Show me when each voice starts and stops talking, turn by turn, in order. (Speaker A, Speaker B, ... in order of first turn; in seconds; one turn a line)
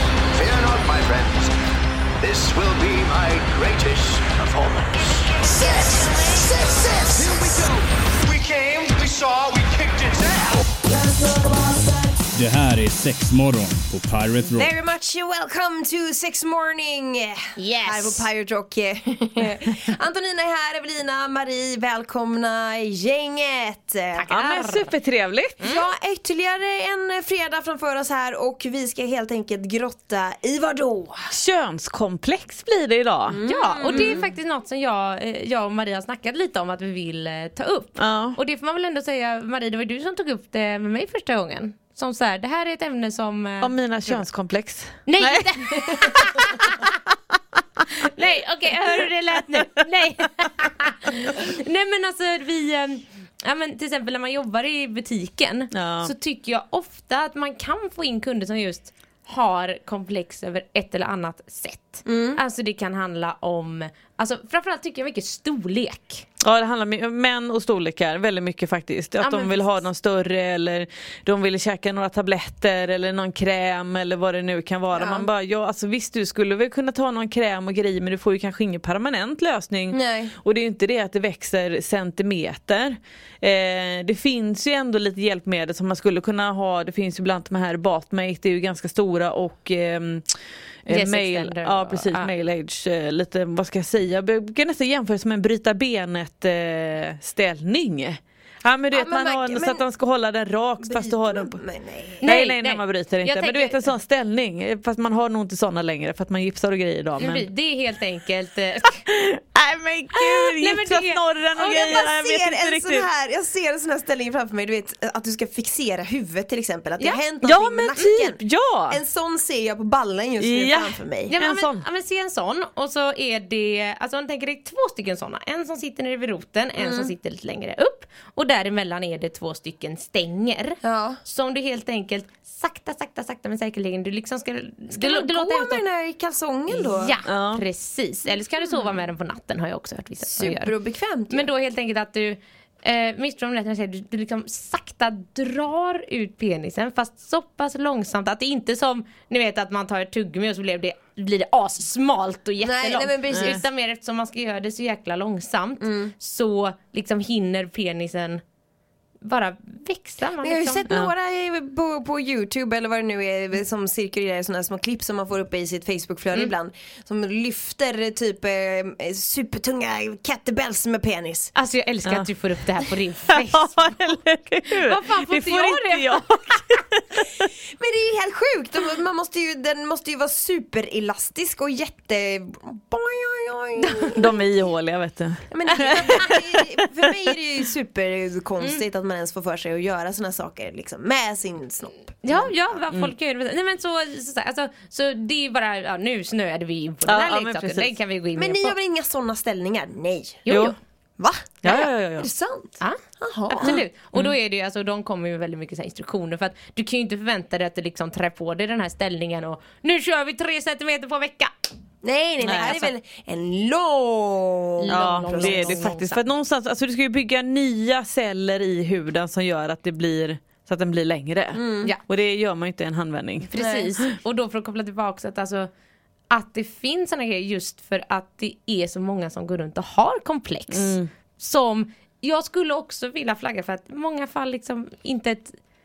Speaker A: 0.3-1.5
Speaker A: 2.2-10.7
Speaker B: 12.3-14.7
Speaker C: 14.5-24.3
Speaker D: 17.6-18.2
Speaker D: 24.1-24.9
Speaker E: 24.3-25.6
Speaker C: 25.6-31.3
Speaker E: 31.3-34.2
Speaker C: 33.3-34.2
Speaker D: 33.4-44.2
Speaker E: 38.0-38.4
Speaker E: 43.6-46.8
Speaker D: 45.1-46.9
Speaker D: 48.0-66.2
Speaker E: 55.7-56.1
Speaker C: 62.0-62.4
Speaker E: 66.4-101.6
Speaker D: 69.2-69.8
Speaker C: 74.9-75.3
Speaker C: 79.9-80.3
Speaker D: 90.9-92.3
Speaker C: 98.9-99.8
Speaker C: 100.8-102.2
Speaker D: 102.2-103.9
Speaker E: 102.2-107.5
Speaker D: 107.2-109.0
Speaker E: 109.0-113.1
Speaker D: 110.1-112.0
Speaker C: 111.5-121.3
Speaker E: 117.4-119.0
Speaker E: 120.4-121.8
Speaker D: 121.3-135.8
Speaker C: 126.8-127.1
Speaker C: 130.8-131.2
Speaker C: 134.9-137.2
Speaker D: 136.7-140.7
Speaker E: 137.2-137.6
Speaker C: 140.2-141.5
Speaker D: 141.3-158.4
Speaker C: 152.6-153.6
Speaker E: 153.3-153.6
Speaker C: 155.8-156.1
Speaker D: 159.2-160.9
Speaker C: 160.4-171.5
Speaker D: 171.5-173.9
Speaker E: 173.3-177.4
Speaker D: 174.8-176.8
Speaker C: 177.7-184.4
Speaker D: 183.8-184.1
Speaker E: 184.1-186.7
Speaker C: 185.5-192.8
Speaker D: 185.7-186.2
Speaker D: 192.2-198.8
Speaker E: 197.1-197.9
Speaker C: 198.3-200.4
Speaker D: 200.4-200.8
Speaker E: 200.5-200.7
Speaker C: 201.2-203.8
Speaker E: 201.6-202.3
Speaker D: 202.8-211.5
Speaker E: 203.6-204.3
Speaker C: 212.0-215.9
Speaker E: 212.4-212.7
Speaker D: 212.6-212.9
Speaker D: 214.8-216.2
Speaker E: 214.9-223.5
Speaker C: 221.5-221.9
Speaker D: 223.5-225.7
Speaker C: 223.6-224.0
Speaker D: 226.3-235.6
Speaker E: 230.7-231.1